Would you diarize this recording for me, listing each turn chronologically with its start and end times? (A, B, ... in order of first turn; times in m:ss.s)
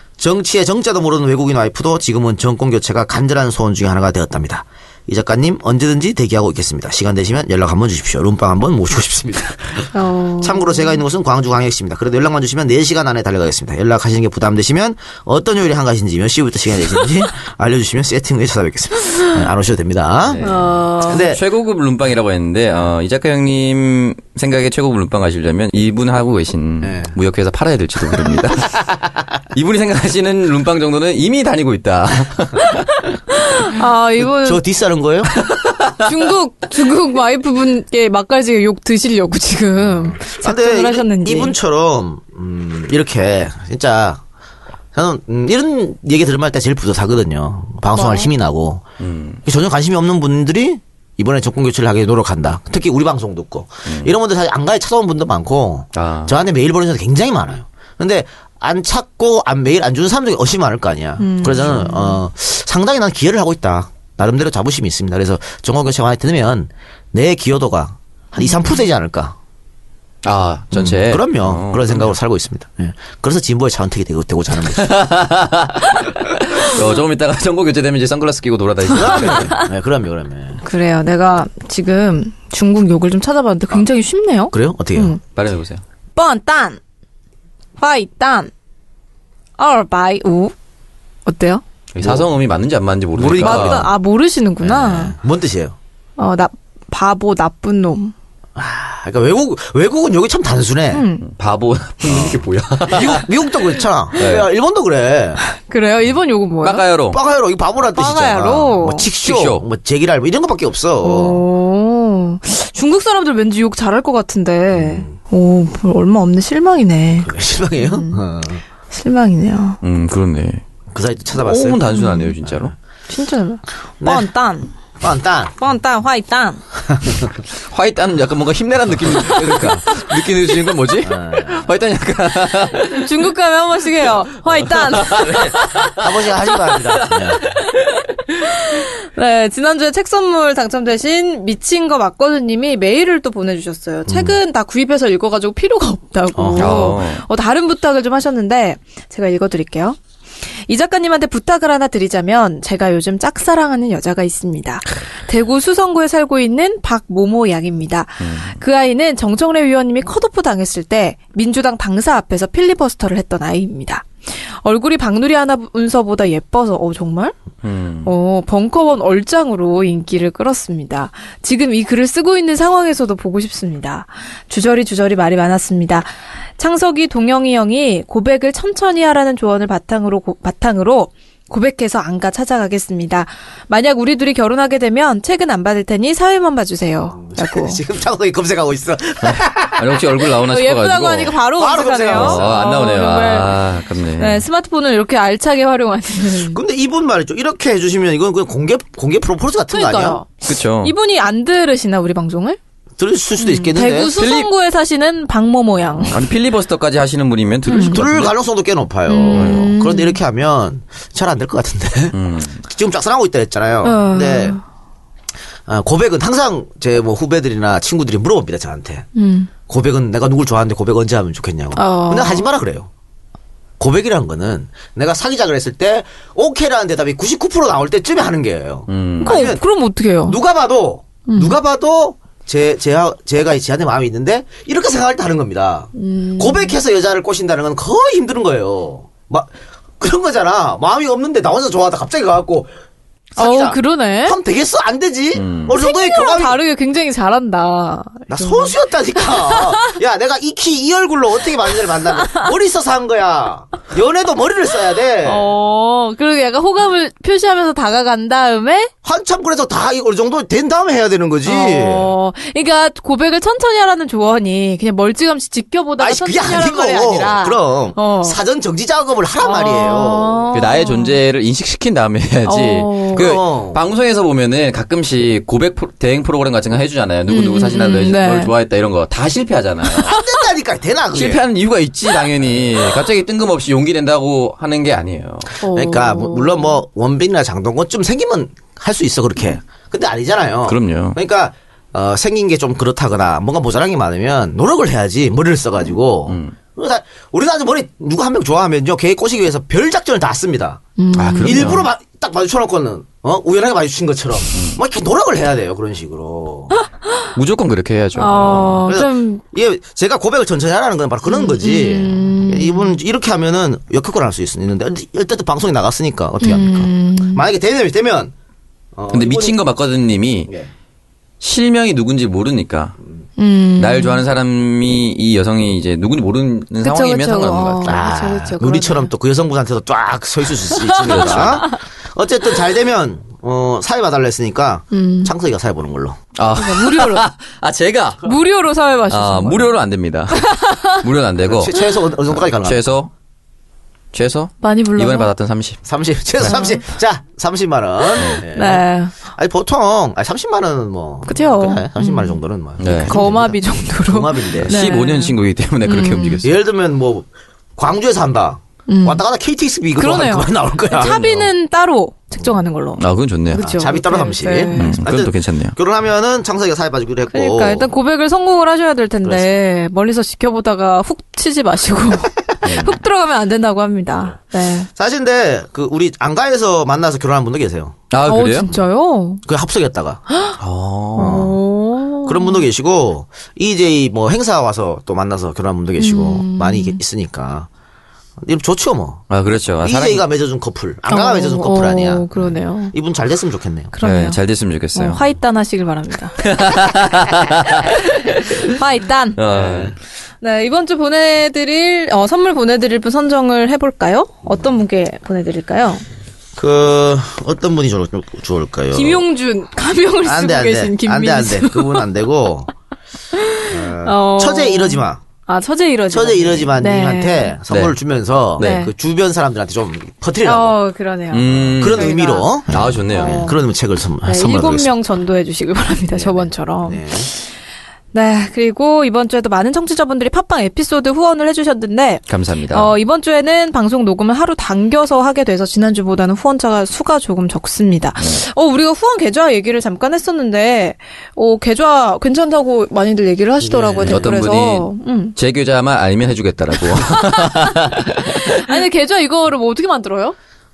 0:00.2-0:20.5 A
0:09.9-0:11.0 B
0:20.3-0:28.9 C
0:20.4-0:21.2 B
0:21.0-0:21.4 A
0:26.8-0:27.1 A
0:29.5-0:32.9 C
0:33.3-0:34.6 B
0:34.2-0:35.4 A
0:35.5-0:36.0 C
0:36.0-0:41.6 B
0:40.0-0:44.2 A
0:44.9-0:48.8 A
0:47.9-0:48.3 B
0:49.0-0:49.4 C
0:49.4-1:09.4 A
0:53.9-0:54.1 C
0:55.9-0:56.3 C
1:01.2-1:02.2 B
1:10.2-1:12.1 C
1:10.7-1:15.0 A
1:14.8-1:19.6 C
1:18.9-1:20.6 A
1:20.6-1:25.2 B
1:24.5-1:25.2 A
1:25.3-1:25.8 C
1:26.2-1:26.8 B
1:27.8-1:28.5 B
1:29.6-1:30.5 B
1:31.3-1:31.6 B
1:31.9-1:33.9 C
1:32.0-1:32.3 A
1:33.2-1:33.9 A
1:33.4-1:35.2 B
1:34.6-1:35.8 A
1:36.2-1:38.1 B
1:38.6-1:41.1 A
1:40.9-1:41.2 B
1:41.2-1:43.3 C
1:42.1-1:45.4 A
1:44.2-1:44.5 C
1:45.5-1:46.8 B
1:46.6-1:47.2 C
1:47.1-1:51.4 A
1:48.0-1:49.1 B
1:49.2-1:49.6 C
1:51.0-1:58.2 B
1:54.7-1:55.2 A
1:57.2-1:58.6 A
1:58.9-1:59.8 B
1:59.8-2:00.6 C
2:00.9-2:01.8 A
2:01.4-2:02.7 C
2:01.9-2:02.4 B
2:02.4-2:02.7 A
2:03.1-2:04.7 B
2:04.0-2:04.3 A
2:05.0-2:05.6 A
2:05.6-2:06.6 B
2:06.9-2:07.3 A
2:07.7-2:13.1 C
2:09.3-2:09.8 A
2:11.0-2:11.7 A
2:12.9-2:15.5 B
2:14.7-2:16.0 C
2:15.2-2:17.4 A
2:16.7-2:17.4 C
2:18.3-2:30.0 B
2:24.1-2:24.4 A
2:26.3-2:26.9 A
2:26.6-2:27.2 C
2:30.7-2:47.4 B
2:38.2-2:38.6 C
2:47.6-2:48.1 C
2:48.0-3:07.8 B
3:07.2-3:10.0 A
3:09.2-3:11.4 C
3:10.4-3:13.6 B
3:11.6-3:12.4 A
3:12.1-3:14.4 C
3:14.2-3:16.6 B
3:16.5-3:20.2 A
3:19.7-3:22.6 B
3:20.4-3:21.0 C
3:23.0-3:24.1 A
3:23.4-3:26.2 B
3:24.2-3:24.5 C
3:26.1-3:28.4 C
3:27.7-3:28.0 B
3:27.9-3:34.6 A
3:29.1-3:30.2 B
3:29.3-3:29.7 C
3:32.1-3:32.6 C
3:33.8-3:34.6 B
3:35.7-3:39.1 A
3:39.2-3:39.5 B
3:39.7-3:42.9 A
3:41.8-3:42.5 B
3:43.8-3:49.6 A
3:48.9-3:49.4 C
3:49.2-3:50.4 B
3:50.2-4:02.7 A
3:51.3-3:51.6 B
3:56.0-3:56.8 B
4:03.4-4:06.6 A
4:03.4-4:04.4 B
4:05.4-4:05.7 C
4:05.8-4:09.9 B
4:08.3-4:15.5 A
4:12.2-4:12.5 B
4:15.2-4:18.9 B
4:19.0-4:22.1 A
4:21.4-4:28.4 B
4:26.0-4:30.5 A
4:29.4-4:31.2 B
4:30.5-4:40.2 C
4:32.5-4:33.3 B
4:33.2-4:33.8 A
4:37.3-4:38.5 B
4:40.0-4:41.4 A
4:41.1-4:45.5 C
4:45.6-4:46.8 B
4:45.7-5:00.8 A
4:50.7-4:51.2 C
4:56.3-4:56.6 C
5:01.0-5:01.8 B
5:01.2-5:01.9 C
5:01.4-5:06.7 A
5:07.4-5:08.8 C
5:08.2-5:09.4 B
5:08.8-5:18.3 A
5:11.3-5:13.0 B
5:16.4-5:17.4 B
5:19.0-5:19.6 A
5:19.1-5:20.5 C
5:21.4-5:23.0 C
5:23.4-5:24.2 B
5:23.8-5:28.0 C
5:26.8-5:29.1 B
5:27.8-5:36.2 A
5:30.8-5:31.7 B
5:31.1-5:31.6 C
5:34.9-5:35.3 B
5:36.4-5:38.3 C
5:36.6-5:37.3 B
5:38.2-5:39.7 B
5:39.1-5:41.7 C
5:40.4-5:41.0 B
5:41.5-5:42.8 A
5:42.3-5:43.1 C
5:44.1-5:45.8 C
5:44.6-5:45.3 B
5:45.8-5:54.8 A
5:46.5-5:46.8 B
5:48.5-5:49.2 B
5:51.3-5:52.4 B
5:52.8-5:53.2 C
5:53.1-5:55.3 B
5:54.6-5:56.5 C
5:55.9-5:56.5 B
5:56.4-6:01.2 A
5:58.9-5:59.2 B
6:00.0-6:05.0 B
6:01.1-6:01.4 C
6:03.0-6:03.7 C
6:03.6-6:07.9 A
6:04.7-6:05.8 C
6:07.3-6:14.9 B
6:12.6-6:13.0 C
6:15.0-6:18.0 A
6:18.1-6:18.7 C
6:18.2-6:19.4 B
6:19.4-6:20.2 A
6:20.6-6:21.5 C
6:21.2-6:22.7 B
6:21.2-6:21.6 A
6:22.2-6:27.7 A
6:26.0-6:27.0 B
6:28.4-6:29.2 A
6:29.3-6:30.2 C
6:29.8-6:33.9 A
6:31.1-6:32.9 B
6:33.9-6:34.4 B
6:34.0-6:35.3 C
6:34.9-6:36.4 B
6:36.4-6:38.6 C
6:38.2-6:39.4 B
6:39.4-6:39.9 C
6:39.5-6:40.0 A
6:40.4-6:46.0 B
6:46.6-6:49.2 A
6:48.9-6:52.0 B
6:50.2-6:52.7 A
6:53.3-6:57.6 B
6:53.7-6:55.2 A
6:56.1-7:00.8 A
6:57.7-6:58.0 C
6:58.6-6:58.8 C
6:58.6-6:58.9 B
7:00.4-7:02.5 B
7:01.3-7:02.1 C
7:01.5-7:04.9 A
7:02.7-7:03.5 C
7:03.1-7:03.6 B
7:04.2-7:07.5 B
7:06.1-7:07.3 A
7:08.1-7:25.4 B
7:12.3-7:12.9 C
7:23.6-7:24.3 A
7:24.0-7:28.4 C
7:27.0-7:30.4 B